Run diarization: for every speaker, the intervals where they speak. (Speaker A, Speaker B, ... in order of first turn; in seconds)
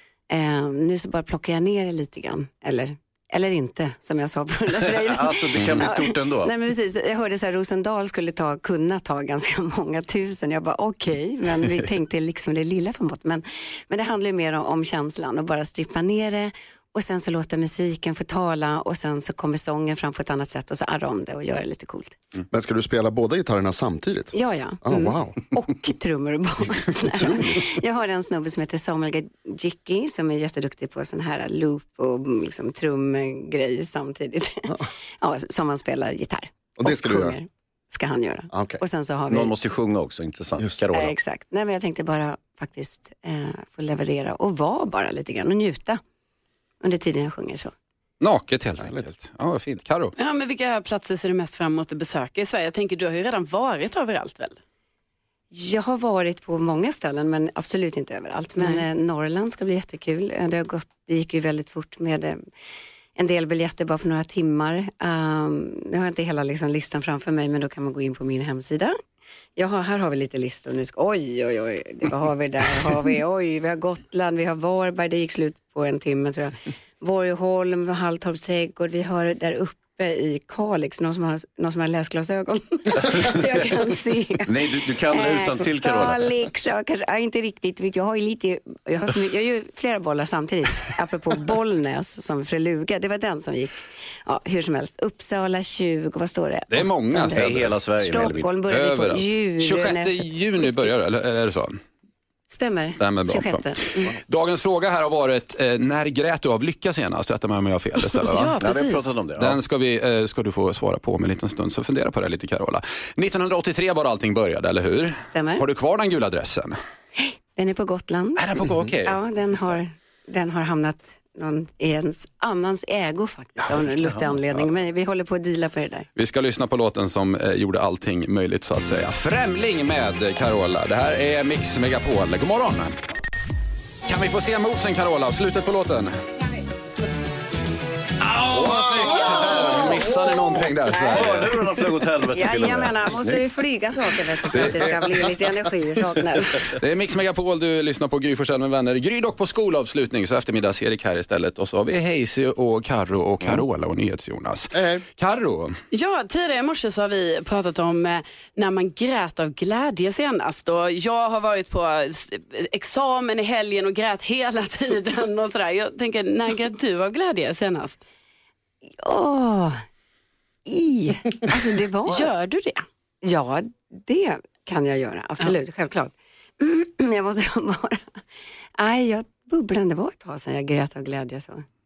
Speaker A: 0.3-22.2, 24.3-39.5, 40.9-46.0, 46.8-47.7, 55.5-62.4, 63.2-69.0, 69.6-100.7, 102.5-104.1, 115.3-115.6, 117.2-126.1, 141.0-141.3, 142.3-146.7, 169.0-169.8, 170.7-172.3, 173.2-178.2, 178.8-181.7
Speaker B: 5.0-6.5, 39.3-41.2, 84.5-86.3, 97.3-98.6, 108.6-109.6, 139.6-140.0, 141.0-143.4, 144.5-145.2
Speaker C: 5.6-5.9, 27.2-27.6, 48.2-50.1, 96.7-97.7, 98.7-101.8, 103.0-103.7, 104.3-108.6, 109.4-116.8, 118.4-119.8, 126.2-132.9, 134.1-136.2, 138.2-141.7, 146.8-155.8
Speaker D: 22.5-25.4, 36.8-37.4, 38.5-38.8, 154.7-155.0
Speaker E: 50.2-54.6, 58.6-58.9, 108.2-109.1, 155.9-168.0, 172.1-172.8